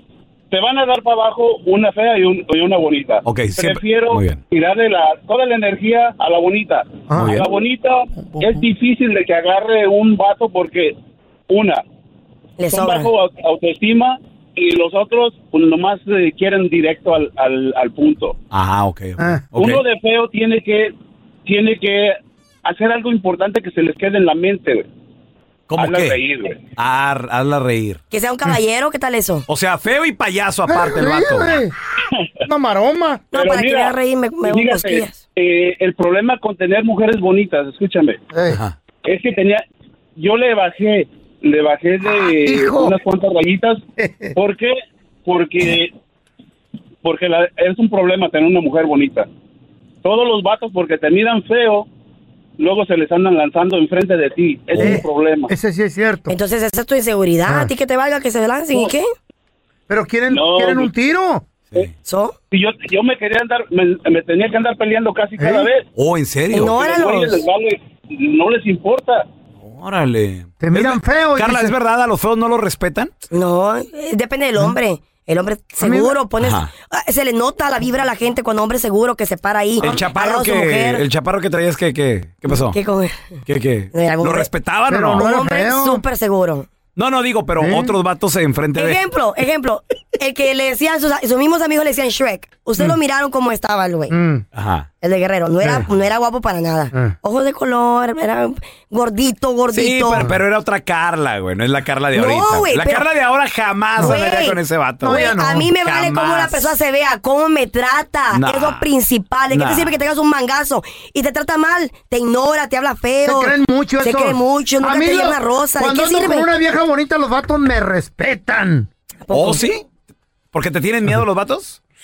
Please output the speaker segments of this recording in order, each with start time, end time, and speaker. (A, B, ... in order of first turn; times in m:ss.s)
0:00.5-0:10.9 A
0:03.2-0:04.4 B
0:07.1-0:07.5 C
0:07.2-0:07.5 B
0:08.1-0:08.6 C
0:11.5-0:11.8 A
0:12.6-0:13.1 D
0:12.7-0:18.3 A
0:18.5-0:19.8 B
0:19.2-0:19.4 C
0:19.6-0:20.9 A
0:21.4-0:24.8 A
0:25.7-0:26.2 B
0:25.8-0:26.6 A
0:26.8-0:28.0 B
0:28.1-0:29.4 D
0:29.5-0:31.6 B
0:30.7-0:31.7 C
0:32.4-0:33.3 C
0:33.3-0:35.2 D
0:33.3-0:38.2 A
0:38.3-0:38.6 C
0:38.5-0:38.7 B
0:39.0-0:39.6 A
0:40.2-0:43.8 A
0:42.1-0:43.0 C
0:44.0-0:44.3 C
0:44.3-0:45.9 A
0:47.0-0:49.3 A
0:50.0-0:51.9 A
0:52.6-0:55.5 A
0:54.7-0:55.0 B
0:54.8-0:56.3 C
0:56.3-0:59.1 D
0:57.4-0:57.7 C
0:59.9-1:01.4 C
1:00.3-1:00.9 A
1:02.0-1:02.3 D
1:02.5-1:05.8 A
1:05.4-1:05.7 C
1:06.0-1:06.7 B
1:06.5-1:07.4 D
1:06.6-1:09.2 A
1:09.6-1:13.1 B
1:10.6-1:11.8 C
1:13.3-1:21.0 D
1:15.8-1:16.2 C
1:16.4-1:16.7 B
1:19.8-1:22.8 B
1:22.5-1:23.2 D
1:23.4-1:25.3 B
1:23.9-1:24.5 D
1:24.9-1:26.0 C
1:25.2-1:26.7 D
1:27.0-1:29.0 B
1:27.6-1:27.9 C
1:28.8-1:34.1 D
1:34.1-1:34.4 C
1:34.5-1:34.9 B
1:35.0-1:40.2 D
1:35.6-1:35.9 C
1:39.7-1:45.3 B
1:40.1-1:40.4 C
1:42.1-1:43.1 D
1:44.0-1:44.4 C
1:44.0-1:56.5 D
1:45.0-1:46.0 C
1:45.8-1:46.7 B
1:48.3-1:48.9 B
1:49.5-1:49.9 B
1:53.2-1:58.9 C
1:59.3-1:59.7 D
1:59.3-1:59.8 B
2:00.5-2:01.8 B